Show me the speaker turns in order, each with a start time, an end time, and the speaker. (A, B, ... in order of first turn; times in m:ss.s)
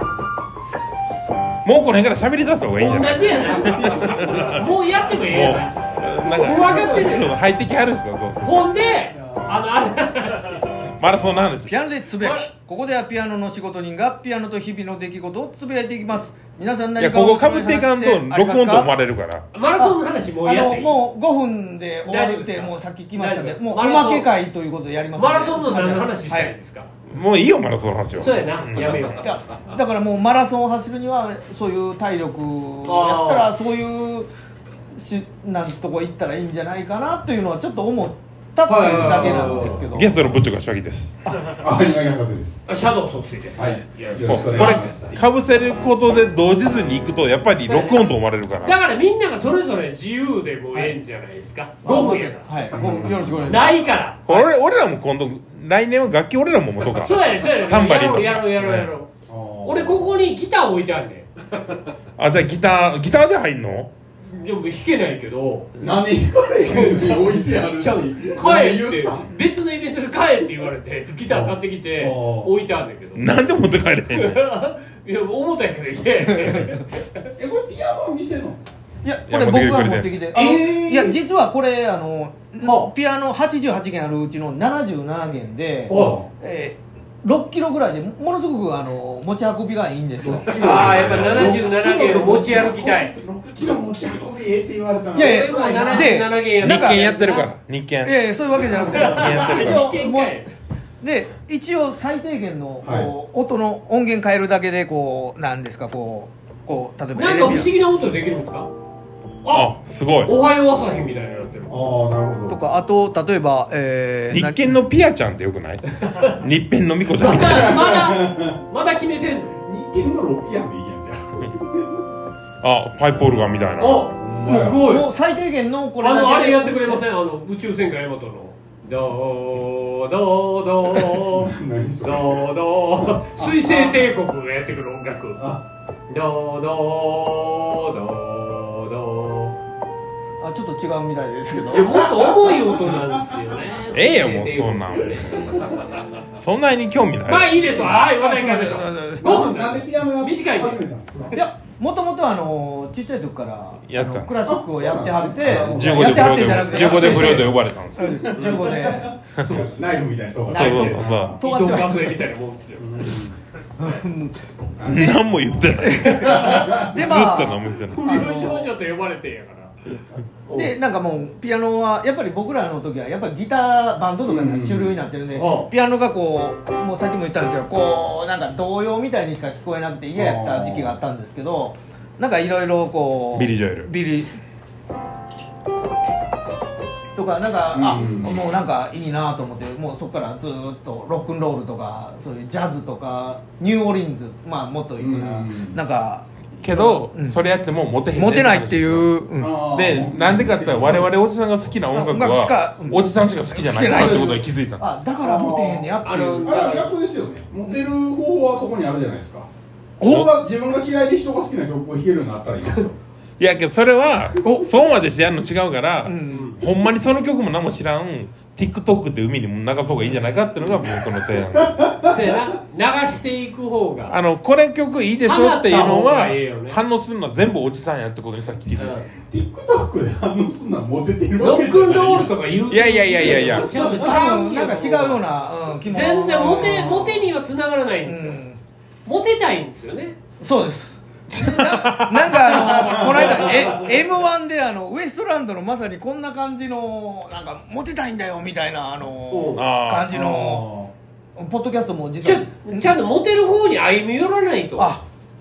0:01.6-0:04.4 A
0:02.8-0:07.3 B
0:03.2-0:05.2 C
0:05.3-0:08.7 A
0:05.9-0:07.3 C
0:08.4-0:10.6 B
0:08.7-0:09.7 C
0:11.0-0:11.8 A
0:11.7-0:18.9 D
0:12.2-0:12.5 B
0:17.0-0:19.5 A
0:19.5-0:21.0 B
0:19.8-0:26.6 D
0:22.1-0:24.3 B
0:25.2-0:26.9 B
0:27.1-0:29.2 A
0:28.2-0:29.3 B
0:29.2-0:34.3 D
0:32.9-0:33.5 B
0:35.0-0:40.2 D
0:38.7-0:39.8 B
0:38.9-0:39.6 C
0:39.7-0:41.4 A
0:41.6-0:42.6 C
0:42.7-0:44.9 B
0:43.6-0:45.1 C
0:44.3-0:48.8 A
0:47.7-0:48.1 B
0:48.6-0:52.5 B
0:51.8-0:53.7 D
0:52.7-0:53.6 C
0:53.4-0:54.5 B
0:54.3-0:58.9 A
0:56.9-0:59.1 B
0:59.3-1:00.0 C
0:59.6-1:01.3 B
1:02.2-1:03.9 A
1:04.3-1:05.7 B
1:05.8-1:09.3 C
1:06.7-1:13.3 B
1:11.3-1:12.5 C
1:13.2-1:14.4 A
1:14.1-1:17.2 B
1:16.2-1:16.7 D
1:17.4-1:18.6 C
1:19.0-1:30.7 D
1:19.3-1:20.4 A
1:20.3-1:21.2 C
1:22.6-1:22.9 B
1:25.9-1:26.2 B
1:25.9-1:26.3 C
1:30.2-1:36.1 C
1:30.5-1:33.1 B
1:30.8-1:31.6 A
1:35.1-1:37.4 D
1:35.2-1:37.5 B
1:36.6-1:40.0 A
1:38.0-1:40.4 D
1:38.9-1:40.5 B
1:41.0-1:47.7 D
1:42.8-1:43.1 C
1:47.2-1:48.7 B
1:49.4-1:49.8 B
1:49.5-1:50.4 A
1:50.3-1:51.8 B
1:51.7-1:52.6 C
1:52.5-1:54.8 D
1:54.3-1:57.8 A
1:56.0-1:56.3 B
1:57.2-1:59.6 B
1:57.4-1:58.6 C
1:59.6-2:02.0 C
2:02.6-2:04.1 A
2:03.8-2:05.1 B
2:04.2-2:04.9 C
2:04.5-2:07.0 D
2:06.0-2:15.4 B
2:11.2-2:14.1 C
2:15.4-2:15.6 C
2:16.1-2:19.5 B
2:20.4-2:22.0 D
2:21.7-2:25.5 B
2:21.9-2:23.6 C
2:23.9-2:25.7 A
2:26.4-2:27.6 A
2:27.3-2:30.8 B
2:27.8-2:29.4 D
2:29.2-2:31.4 C
2:31.3-2:39.1 D
2:33.9-2:34.4 A
2:34.4-2:36.7 C
2:35.5-2:38.2 A
2:38.2-2:41.4 C
2:39.4-2:39.6 A
2:40.5-2:41.4 A
2:40.5-2:42.1 D
2:41.4-2:43.2 B
2:42.8-2:43.4 C
2:43.8-2:44.5 D
2:44.8-2:46.9 C
2:44.8-2:48.1 A
2:45.8-2:48.7 D
2:47.9-2:49.8 B
2:50.5-3:04.4 D
2:54.3-2:55.0 C
2:55.4-2:55.7 B
3:00.2-3:00.9 C
3:03.3-3:03.9 A
3:07.2-3:17.4 D
3:07.7-3:08.4 C
3:15.0-3:15.8 C
3:16.6-3:24.9 A
3:18.1-3:19.6 D
3:19.4-3:21.1 C
3:21.9-3:26.8 D
3:23.9-3:24.4 B
3:25.2-3:25.9 C
3:26.0-3:26.9 B
3:26.4-3:29.5 C
3:30.0-3:30.3 D
3:30.0-3:30.3 A
3:30.0-3:33.0 C
3:33.4-3:41.9 A
3:34.4-3:34.7 D
3:36.0-3:36.6 D
3:36.3-3:36.6 B
3:41.2-3:42.4 C
3:42.0-3:44.2 B
3:44.1-3:49.1 A
3:45.2-3:46.8 B
3:48.8-3:49.1 B
3:48.9-3:52.4 C
3:51.4-3:55.2 B
3:52.7-3:53.9 A
3:53.2-3:54.3 C
3:53.9-3:57.3 D
3:55.8-3:58.4 B
3:58.0-3:58.6 D
3:59.0-4:00.2 B
4:00.4-4:10.7 D
4:01.3-4:03.0 A
4:02.7-4:03.8 C
4:09.3-4:09.6 B
4:09.6-4:10.1 A
4:10.1-4:10.9 C
4:11.4-4:12.9 D
4:12.2-4:14.9 B
4:14.8-4:15.0 D